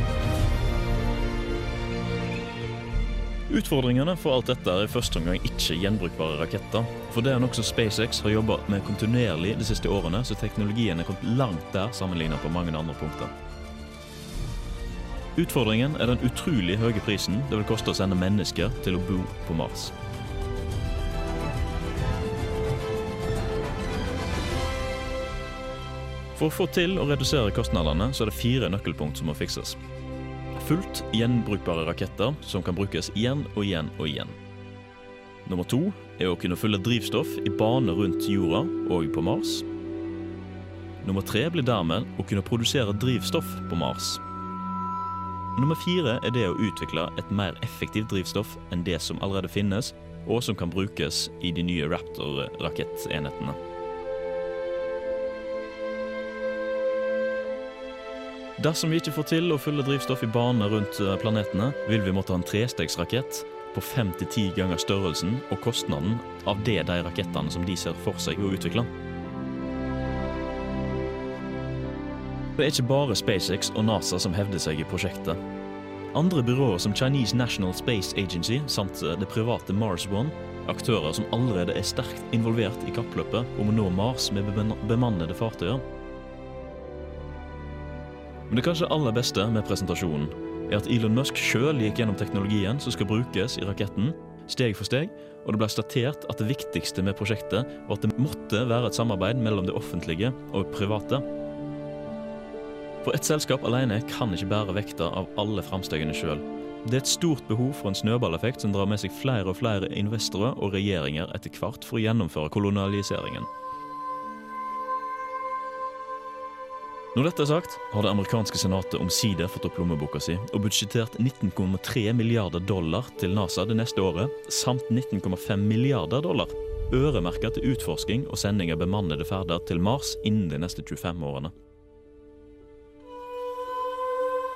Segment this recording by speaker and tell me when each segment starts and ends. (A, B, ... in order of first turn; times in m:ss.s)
0:03.5-0:13.3 A
0:15.4-0:19.9 A
0:26.4-0:29.8 A
0:30.6-0:34.4 A
0:35.4-0:39.6 A
0:41.0-0:44.2 A
0:45.6-0:53.6 A
0:58.6-1:08.9 A
1:12.6-1:15.4 A
1:16.1-1:25.8 A
1:28.5-1:41.2 A
1:43.0-1:53.5 A
1:57.1-2:11.5 A